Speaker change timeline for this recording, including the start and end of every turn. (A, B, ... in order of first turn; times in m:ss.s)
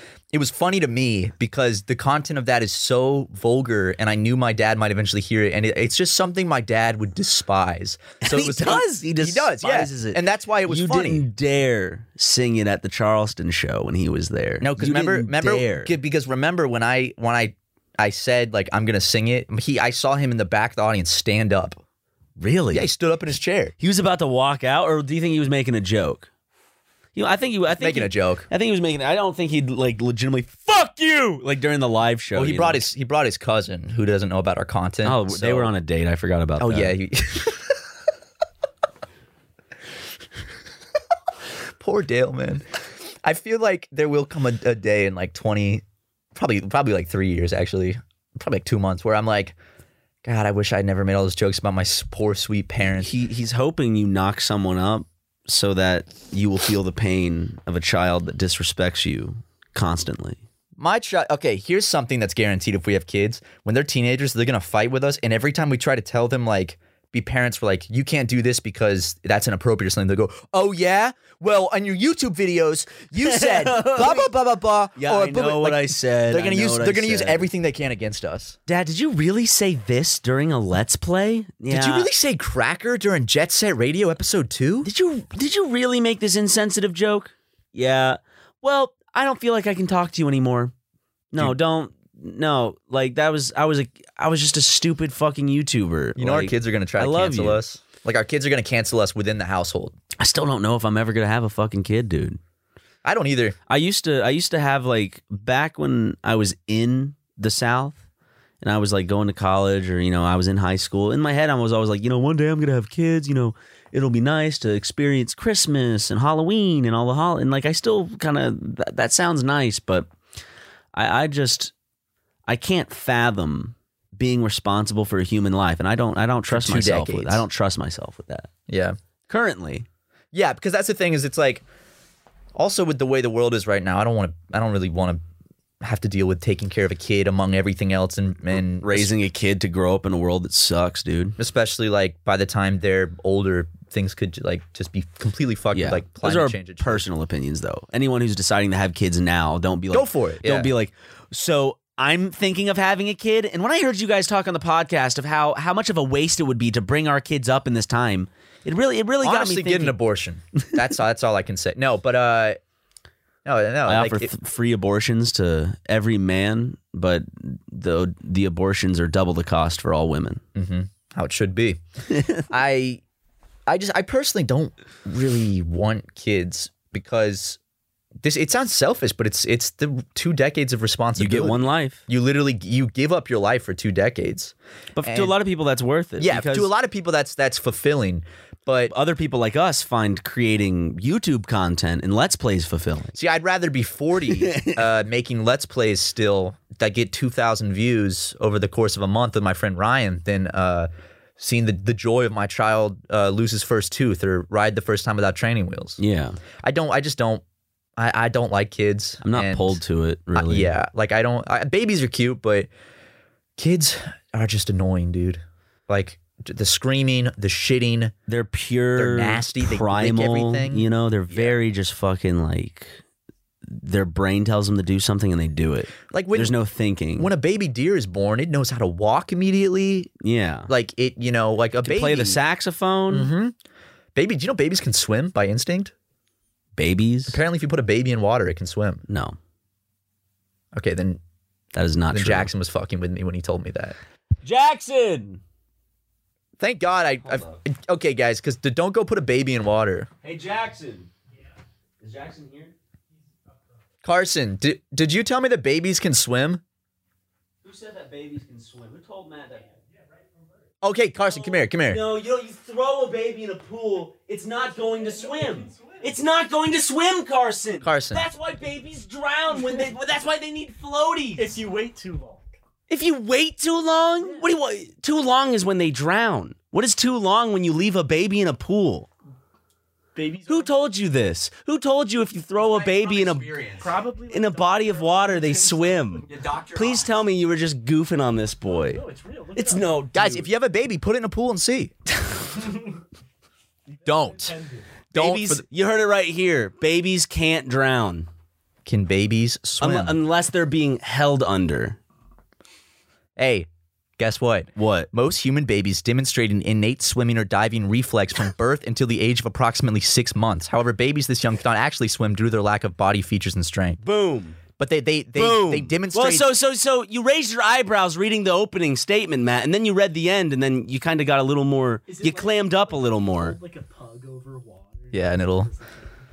0:00.3-0:11.2 A
0:08.2-0:15.9 B
0:14.6-0:21.8 A
0:22.4-0:22.8 B
0:22.7-0:23.7 A
0:23.8-0:26.3 B
0:27.2-0:32.8 B
0:27.7-0:28.5 A
0:32.3-0:35.7 A
0:35.0-0:36.9 B
0:36.6-0:37.8 A
0:41.8-0:45.8 A
0:46.3-0:49.6 A
0:50.2-0:53.1 A
0:53.0-1:00.4 B
1:00.8-1:18.6 A
1:13.2-1:14.3 B
1:15.0-1:17.5 B
1:18.7-1:22.1 B
1:21.7-1:24.9 A
1:24.8-1:30.7 B
1:31.3-1:37.6 B
1:36.2-1:40.0 A
1:40.2-1:42.4 B
1:43.0-1:43.6 A
1:43.7-1:48.0 B
1:48.6-2:00.1 B
2:00.9-2:01.7 B
2:02.5-2:08.5 B
2:06.5-2:07.4 A
2:08.7-2:09.0 A
2:09.3-2:09.9 B
2:10.3-2:11.6 A
2:12.5-2:15.2 A
2:15.8-2:19.1 A
2:18.5-2:21.4 B
2:21.4-2:27.0 A
2:25.7-2:40.0 B
2:29.9-2:30.7 A
2:39.2-2:42.6 A
2:43.4-2:44.3 A
2:43.9-2:50.4 B
2:50.6-2:51.8 A
2:52.1-2:52.4 B
2:52.5-2:53.0 A
2:53.7-2:57.6 A
2:58.2-3:05.3 A
3:01.2-3:02.0 B
3:05.0-3:06.7 B
3:06.2-3:08.9 A
3:08.9-3:13.1 B
3:13.1-3:26.0 A
3:14.3-3:14.8 B
3:26.0-3:26.4 B
3:26.6-3:27.4 A
3:28.0-3:29.8 A
3:29.2-3:30.7 B
3:30.3-3:32.7 A
3:33.6-3:38.1 A
3:38.3-3:43.0 B
3:38.9-3:41.6 A
3:43.7-3:47.3 B
3:46.1-3:46.5 A
3:47.2-3:50.1 A
3:50.2-3:50.7 B
3:50.7-3:52.4 A
3:51.8-3:53.3 B
3:53.1-3:53.6 A
3:54.1-3:55.9 A
3:56.8-3:57.4 B
3:57.3-3:59.0 A
3:59.1-3:59.4 B
4:00.7-4:01.2 A
4:01.7-4:02.5 B
4:02.1-4:04.0 A
4:04.4-4:05.4 B
4:06.6-4:10.1 A
4:07.2-4:07.6 B
4:10.2-4:11.1 B
4:12.0-4:12.7 B
4:14.0-4:16.6 A
4:17.6-4:19.8 B
4:20.8-4:22.0 A
4:21.3-4:31.6 B
4:25.2-4:25.6 C
4:27.8-4:28.2 A
4:31.5-4:32.2 C
4:32.9-4:39.1 B
4:40.2-4:40.6 C
4:40.4-4:50.5 B
4:42.6-4:43.5 A
4:43.8-4:46.2 C
4:46.6-4:47.0 A
4:49.0-4:49.8 C
4:50.1-4:51.9 A
4:54.0-4:55.6 A
4:55.1-4:58.3 B
4:58.8-5:00.2 A
4:59.8-5:02.0 B
5:03.4-5:14.0 A
5:04.8-5:05.1 B
5:14.0-5:14.6 B
5:14.8-5:16.5 A
5:15.4-5:23.6 B
5:22.1-5:26.1 C
5:25.1-5:25.7 A